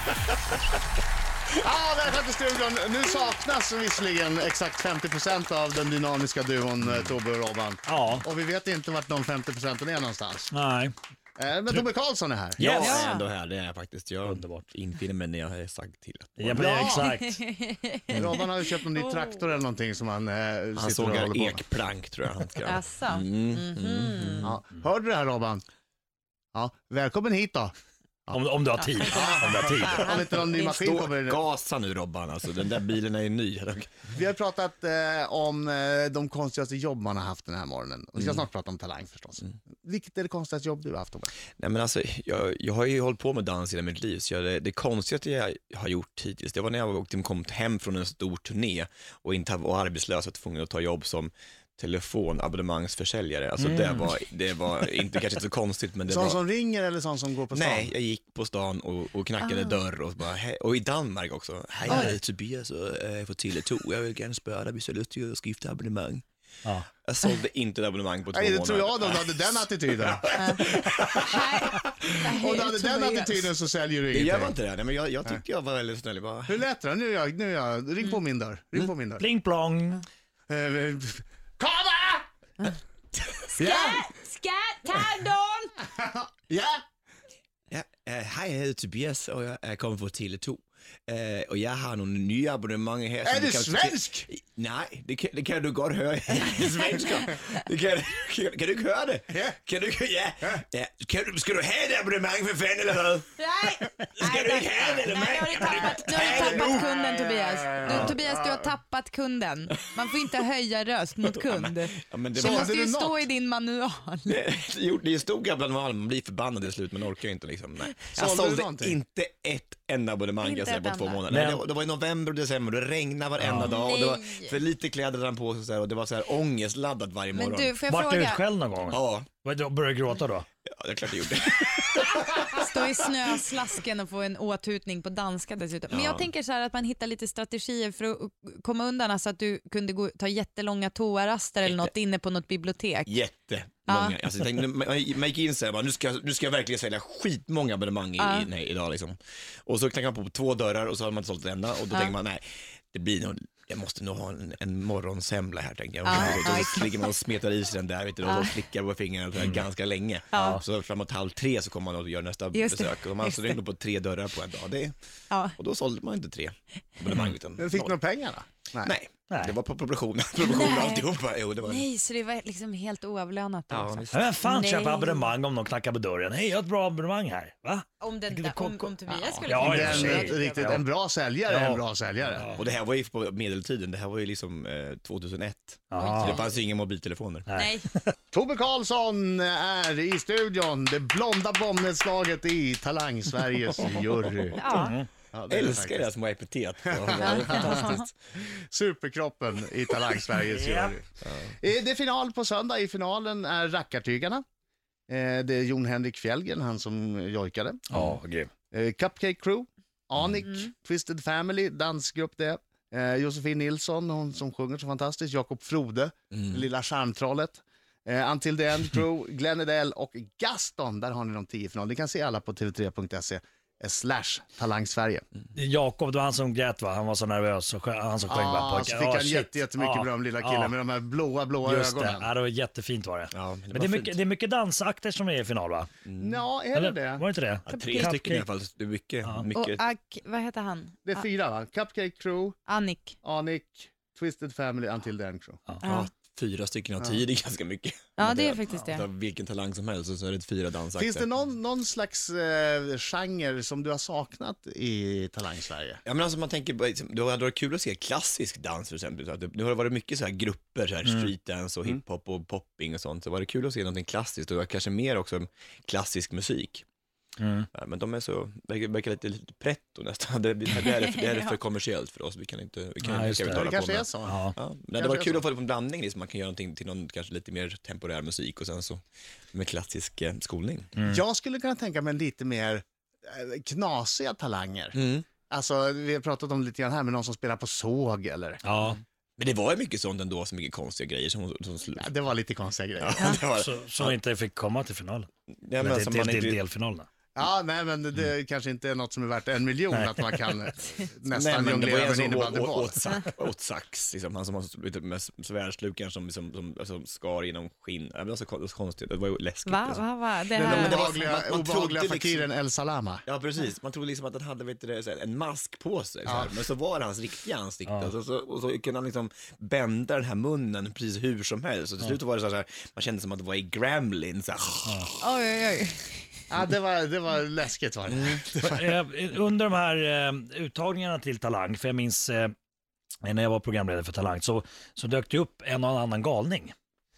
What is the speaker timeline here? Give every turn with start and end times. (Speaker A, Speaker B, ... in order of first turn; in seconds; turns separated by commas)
Speaker A: 1.6-10.5, Speaker B: 7.8-8.3, Speaker B: 10.5-10.9, Speaker A: 11.4-12.6, Speaker B: 12.6-13.0, Speaker C: 12.6-16.6, Speaker D: 12.7-13.3, Speaker B: 14.2-14.7, Speaker B: 16.4-17.4, Speaker A: 16.5-17.1, Speaker D: 16.9-18.4, Speaker A: 18.1-21.6, Speaker D: 18.9-19.4, Speaker C: 20.8-24.5, Speaker D: 22.6-24.5, Speaker A: 24.4-25.6, Speaker A: 26.5-27.7, Speaker B: 28.3-30.2, Speaker D: 28.8-30.8, Speaker A: 29.1-31.4, Speaker C: 30.8-34.1, Speaker A: 34.1-41.3, Speaker C: 41.5-56.4, Speaker B: 53.6-54.1, Speaker A: 56.1-57.9, Speaker C: 57.5-66.2, Speaker D: 59.4-59.8, Speaker B: 61.9-62.1, Speaker C: 67.0-71.8, Speaker A: 68.3-70.3, Speaker D: 70.3-70.6, Speaker D: 71.2-73.5, Speaker A: 72.2-74.6, Speaker C: 74.1-76.6, Speaker A: 76.5-79.3, Speaker B: 79.2-80.0, Speaker A: 80.5-82.3, Speaker D: 83.5-85.7, Speaker A: 83.6-84.0, Speaker A: 85.9-86.8, Speaker C: 87.7-103.3, Speaker A: 93.2-94.3, Speaker A: 96.6-97.3, Speaker D: 97.0-97.4, Speaker A: 99.3-99.6, Speaker D: 103.4-114.4, Speaker C: 104.2-106.9, Speaker A: 106.2-108.7, Speaker C: 107.8-108.2, Speaker C: 111.4-112.7, Speaker A: 112.3-113.3, Speaker C: 114.3-127.8, Speaker A: 118.1-119.0, Speaker D: 120.4-121.2, Speaker B: 121.3-121.7, Speaker B: 123.4-123.8, Speaker D: 123.6-124.6, Speaker D: 127.3-128.4, Speaker B: 127.9-130.5, Speaker C: 128.9-129.3, Speaker C: 130.7-132.8, Speaker D: 132.5-143.2, Speaker C: 135.9-136.3, Speaker C: 141.6-141.9, Speaker C: 143.1-165.0, Speaker D: 143.9-144.2, Speaker D: 148.2-148.5, Speaker D: 156.1-157.1, Speaker B: 156.1-156.5, Speaker D: 158.2-158.6, Speaker D: 160.3-160.6, Speaker B: 160.4-160.6, Speaker D: 162.5-163.6, Speaker D: 165.3-165.6, Speaker C: 165.6-168.0, Speaker A: 167.6-168.9, Speaker C: 168.8-171.9, Speaker B: 169.3-169.6, Speaker D: 170.4-171.1, Speaker D: 171.6-175.3, Speaker C: 173.7-174.4, Speaker B: 174.1-177.9, Speaker D: 178.0-180.8, Speaker C: 178.3-179.3, Speaker B: 179.4-180.8, Speaker A: 179.6-182.5, Speaker B: 181.4-182.6, Speaker C: 182.5-187.5, Speaker B: 185.9-186.4, Speaker D: 185.9-186.5, Speaker B: 187.5-187.7, Speaker D: 187.5-187.9, Speaker A: 188.3-194.6, Speaker D: 194.6-194.9, Speaker B: 194.7-195.1, Speaker A: 195.3-196.1, Speaker C: 195.5-198.1, Speaker A: 196.9-204.4, Speaker D: 197.2-198.1, Speaker B: 200.4-201.0, Speaker A: 205.1-207.8, Speaker B: 207.9-208.5, Speaker A: 208.7-225.2, Speaker C: 216.3-216.7, Speaker B: 225.6-230.8, Speaker A: 228.3-232.3, Speaker B: 231.6-235.9, Speaker C: 233.3-234.2, Speaker C: 236.1-236.4, Speaker A: 236.2-237.3, Speaker B: 236.7-238.5, Speaker C: 237.7-239.8, Speaker D: 237.7-238.2, Speaker D: 239.5-241.3, Speaker A: 241.1-242.6, Speaker D: 242.7-243.2, Speaker A: 243.2-245.6, Speaker D: 245.8-246.1, Speaker C: 245.8-251.2, Speaker D: 248.2-249.1, Speaker A: 250.9-256.0, Speaker C: 256.1-266.9, Speaker B: 261.1-261.3, Speaker B: 267.4-267.7, Speaker C: 267.7-279.0, Speaker D: 270.9-271.6, Speaker B: 273.0-273.7, Speaker A: 273.5-274.4, Speaker B: 274.2-274.6, Speaker A: 274.9-275.4, Speaker C: 279.5-280.9, Speaker B: 281.0-281.2, Speaker A: 281.1-288.6, Speaker C: 285.0-285.3, Speaker B: 288.6-289.0, Speaker C: 289.4-292.1, Speaker A: 292.0-293.4, Speaker C: 293.0-294.2, Speaker B: 293.5-295.3, Speaker C: 295.6-296.6, Speaker B: 295.8-297.1, Speaker A: 297.4-303.0, Speaker B: 299.9-300.5, Speaker C: 301.3-310.1, Speaker D: 309.7-311.1, Speaker A: 310.6-313.2, Speaker C: 310.6-312.5, Speaker C: 313.3-325.1, Speaker A: 316.3-316.6, Speaker B: 317.9-318.1, Speaker B: 324.9-325.1, Speaker D: 325.2-326.2, Speaker A: 326.5-328.9, Speaker C: 328.1-328.4, Speaker B: 328.6-332.5, Speaker B: 333.2-336.8